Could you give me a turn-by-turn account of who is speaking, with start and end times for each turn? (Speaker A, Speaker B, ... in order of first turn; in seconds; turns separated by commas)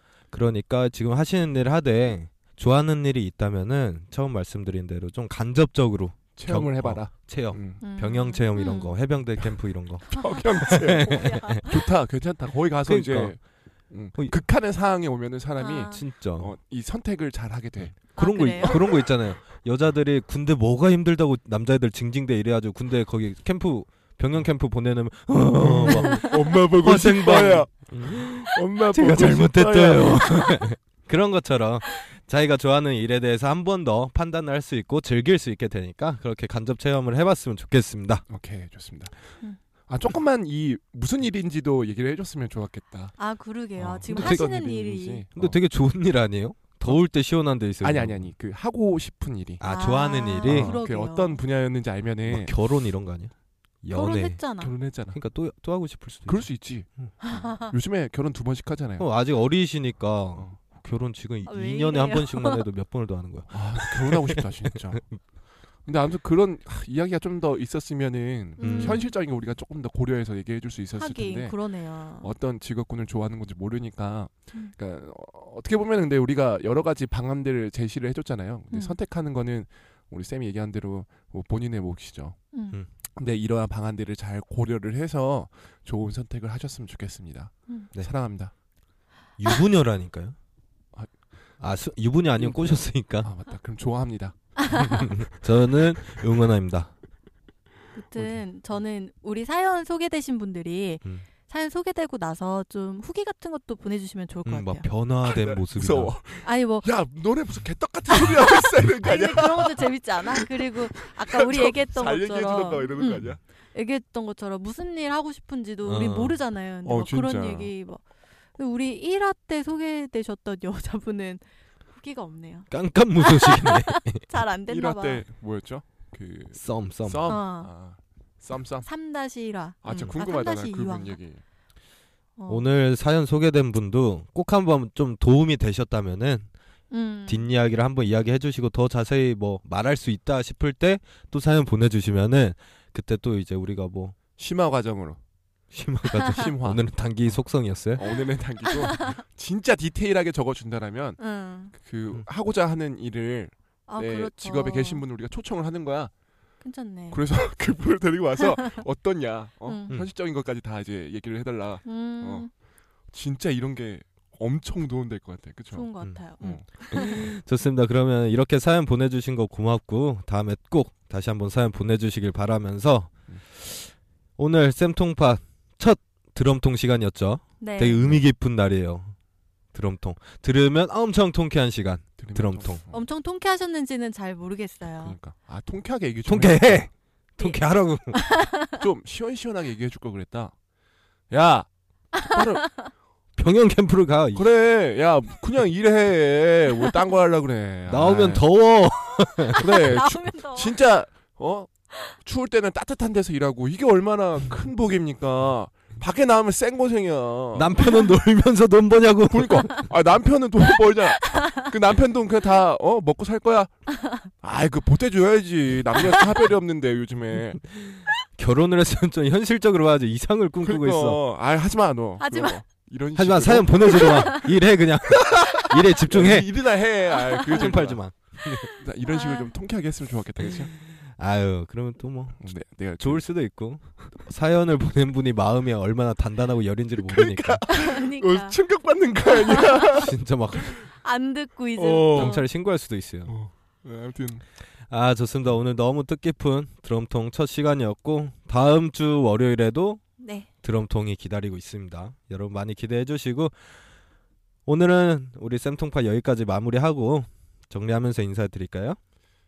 Speaker A: 0.3-11.6, Speaker B: 6.3-7.8, Speaker C: 7.8-9.0, Speaker B: 10.1-17.9, Speaker C: 10.1-11.8, Speaker A: 12.9-13.4, Speaker C: 15.6-16.0, Speaker A: 15.9-16.5, Speaker A: 17.8-38.3, Speaker C: 18.1-18.9, Speaker B: 18.6-18.9, Speaker B: 25.5-30.6, Speaker C: 25.9-26.2, Speaker B: 38.3-43.1, Speaker C: 43.2-45.2, Speaker B: 43.8-45.6, Speaker A: 44.1-44.4, Speaker A: 45.4-48.3, Speaker B: 47.8-49.6, Speaker A: 49.6-50.8, Speaker C: 49.6-51.4, Speaker B: 50.4-52.5, Speaker A: 52.3-54.4, Speaker C: 53.9-54.7, Speaker B: 54.6-55.2, Speaker A: 55.1-56.5, Speaker B: 56.2-59.1, Speaker C: 57.2-57.7, Speaker A: 59.0-64.4, Speaker C: 61.4-62.6, Speaker B: 63.5-65.1, Speaker B: 65.8-71.6, Speaker A: 68.6-69.0, Speaker C: 68.6-69.1, Speaker C: 71.0-72.3, Speaker B: 72.2-82.4, Speaker C: 82.5-82.8, Speaker B: 83.1-88.5, Speaker A: 89.4-90.3, Speaker A: 91.6-93.3, Speaker B: 92.4-95.2, Speaker C: 94.5-95.1, Speaker A: 94.7-96.9, Speaker C: 97.9-104.9, Speaker A: 104.5-106.1, Speaker B: 105.2-113.4, Speaker C: 106.4-106.9, Speaker C: 108.1-118.0, Speaker A: 115.8-116.4, Speaker B: 116.8-117.7, Speaker C: 118.5-125.2, Speaker A: 122.7-124.2, Speaker B: 124.7-128.9, Speaker A: 126.5-127.4, Speaker C: 127.3-127.7, Speaker C: 128.8-131.2, Speaker B: 129.8-131.4, Speaker C: 132.4-132.7, Speaker A: 132.5-136.5, Speaker C: 136.9-137.5, Speaker A: 137.3-144.2, Speaker B: 144.4-145.2, Speaker A: 145.7-148.0, Speaker C: 146.1-146.4, Speaker B: 146.3-147.3, Speaker B: 147.9-151.2, Speaker C: 148.8-149.2, Speaker C: 151.2-151.7, Speaker B: 151.7-156.1, Speaker C: 153.9-155.0, Speaker C: 156.6-157.2, Speaker B: 157.1-162.5, Speaker C: 159.7-159.9, Speaker C: 161.8-162.5, Speaker B: 163.1-166.7, Speaker C: 165.7-167.2, Speaker A: 166.8-179.1, Speaker C: 177.6-178.1, Speaker A: 179.7-182.8, Speaker B: 182.2-183.1, Speaker C: 182.9-185.2, Speaker B: 185.0-186.9, Speaker A: 186.3-188.2, Speaker C: 188.1-188.8, Speaker B: 188.7-190.5, Speaker B: 191.3-192.7, Speaker C: 192.2-192.9, Speaker A: 193.4-194.5, Speaker B: 194.3-198.4, Speaker A: 197.9-200.0, Speaker B: 199.6-207.9, Speaker C: 199.6-200.8, Speaker A: 207.5-209.8, Speaker B: 209.2-217.6, Speaker C: 211.3-211.6, Speaker A: 218.4-221.2, Speaker B: 220.6-224.5, Speaker C: 222.2-222.6, Speaker A: 223.1-226.5, Speaker C: 224.0-224.5, Speaker B: 225.1-228.0, Speaker C: 227.3-227.7, Speaker A: 227.4-228.7, Speaker B: 228.7-230.7, Speaker C: 229.1-229.5, Speaker A: 230.8-237.7, Speaker B: 232.4-233.3, Speaker B: 237.0-240.1, Speaker C: 237.7-238.6, Speaker C: 239.5-239.8, Speaker A: 239.9-240.8, Speaker C: 241.0-242.4, Speaker B: 241.8-242.4, Speaker A: 242.1-243.3, Speaker B: 243.3-244.4, Speaker A: 244.9-250.0, Speaker C: 250.2-250.5, Speaker A: 250.6-253.5, Speaker A: 254.7-259.0